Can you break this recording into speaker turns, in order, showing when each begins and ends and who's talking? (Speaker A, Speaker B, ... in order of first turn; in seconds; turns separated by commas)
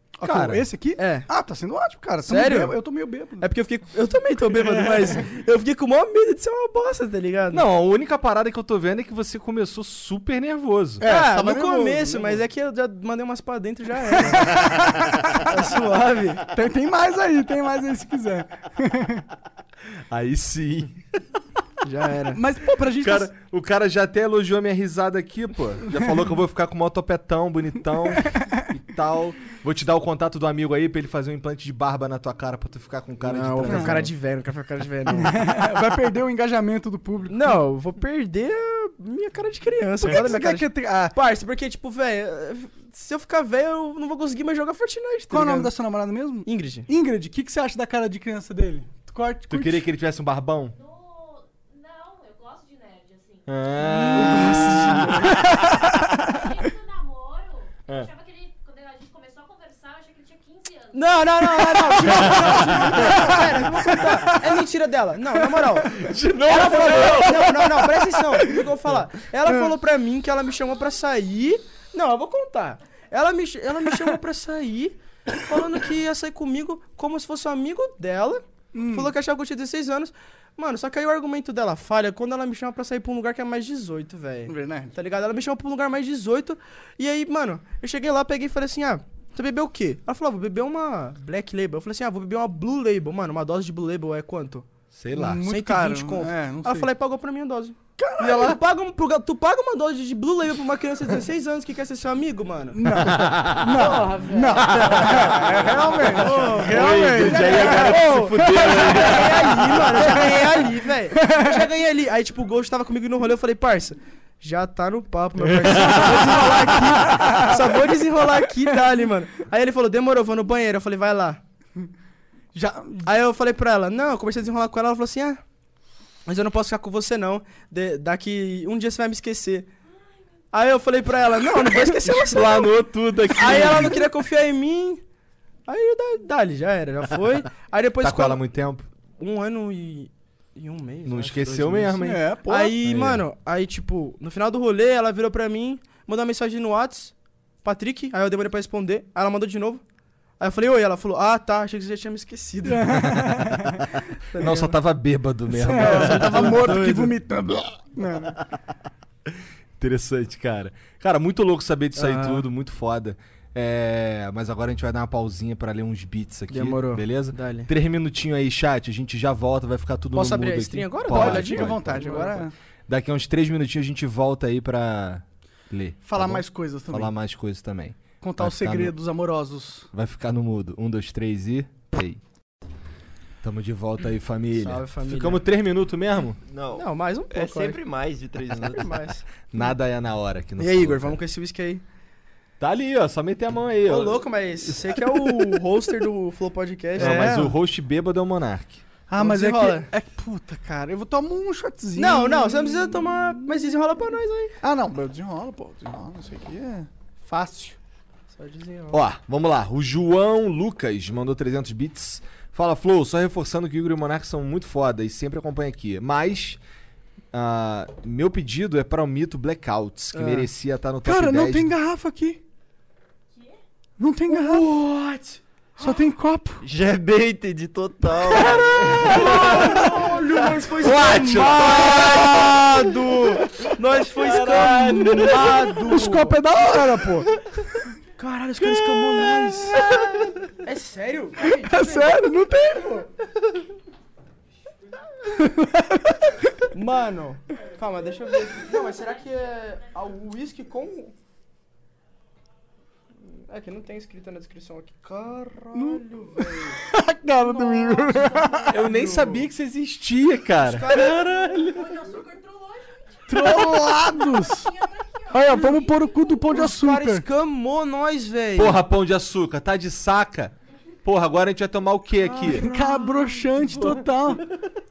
Speaker A: 0.2-3.5, Speaker B: 0.2-0.7, Speaker C: 1.0-1.3, Speaker C: 2.3-2.8, Speaker C: 3.4-7.6, Speaker B: 7.5-11.0, Speaker A: 11.0-12.4, Speaker C: 11.0-14.7, Speaker A: 14.4-15.2, Speaker C: 15.3-16.4, Speaker A: 16.5-19.2, Speaker B: 20.1-21.0, Speaker C: 21.8-22.4, Speaker A: 22.3-23.3, Speaker B: 23.0-34.1, Speaker C: 33.2-35.3, Speaker A: 35.1-37.5, Speaker C: 37.3-45.7, Speaker A: 40.0-41.1, Speaker A: 45.3-49.8, Speaker C: 46.5-46.9, Speaker B: 49.5-50.8, Speaker D: 50.7-53.5, Speaker B: 53.5-55.2, Speaker C: 53.8-55.4, Speaker A: 55.5-55.8, Speaker D: 56.3-61.4, Speaker C: 60.9-94.7, Speaker B: 62.0-63.0, Speaker A: 62.1-64.4, Speaker B: 65.9-68.7, Speaker A: 78.7-79.1, Speaker A: 84.5-84.9, Speaker B: 94.9-95.4, Speaker A: 95.1-96.9, Speaker C: 95.4-102.8, Speaker A: 98.0-98.6, Speaker A: 102.7-109.1, Speaker B: 102.9-110.3, Speaker C: 103.7-105.2, Speaker C: 106.0-121.4, Speaker A: 111.1-111.6, Speaker B: 115.4-116.5, Speaker A: 115.8-117.6, Speaker A: 122.5-123.1, Speaker C: 123.0-125.4, Speaker C: 126.2-129.7, Speaker C: 130.5-132.7, Speaker B: 132.0-134.1, Speaker C: 133.3-135.0, Speaker C: 135.7-138.4, Speaker B: 138.0-138.9, Speaker C: 139.2-147.1, Speaker B: 141.0-142.3, Speaker A: 142.0-142.7, Speaker B: 142.8-143.2, Speaker C: 147.6-149.8, Speaker C: 150.4-153.4, Speaker A: 152.7-153.8, Speaker C: 154.2-154.8, Speaker B: 154.4-156.7, Speaker A: 155.6-158.4, Speaker C: 155.6-157.1, Speaker B: 159.8-172.3, Speaker C: 161.9-162.4, Speaker C: 166.5-167.7, Speaker C: 170.1-172.4, Speaker A: 171.1-172.5, Speaker B: 172.9-178.9, Speaker A: 176.0-177.1, Speaker A: 178.2-179.9, Speaker B: 179.9-182.2, Speaker B: 183.4-186.4, Speaker C: 184.5-185.4, Speaker E: 186.5-189.0, Speaker C: 186.7-187.8, Speaker C: 188.6-189.3, Speaker B: 189.5-191.2, Speaker C: 190.6-191.8, Speaker B: 192.6-195.0, Speaker C: 193.9-197.3, Speaker B: 197.0-198.8, Speaker A: 197.0-197.5, Speaker A: 199.1-203.3, Speaker C: 199.2-199.9, Speaker C: 201.9-204.5, Speaker A: 204.6-207.8, Speaker C: 208.3-209.0, Speaker B: 208.9-216.6, Speaker B: 217.3-221.7, Speaker C: 220.1-220.5, Speaker A: 221.0-222.4, Speaker A: 224.0-224.7, Speaker C: 224.3-226.0, Speaker A: 225.8-226.6, Speaker E: 226.6-229.2, Speaker C: 228.4-236.8, Speaker B: 228.8-229.8, Speaker A: 229.4-229.9, Speaker B: 230.8-232.6, Speaker B: 234.2-235.6, Speaker A: 235.8-237.3, Speaker C: 238.2-239.9, Speaker C: 240.6-243.1, Speaker A: 241.4-243.0, Speaker A: 245.3-246.6, Speaker C: 246.7-251.1, Speaker C: 253.3-256.8, Speaker A: 255.7-258.7, Speaker C: 257.4-259.5, Speaker B: 258.7-262.0, Speaker C: 260.6-261.9, Speaker D: 261.6-266.3, Speaker A: 263.3-264.7, Speaker A: 265.3-267.2, Speaker C: 266.5-268.8, Speaker B: 268.6-272.7, Speaker C: 272.2-273.6, Speaker A: 272.5-274.4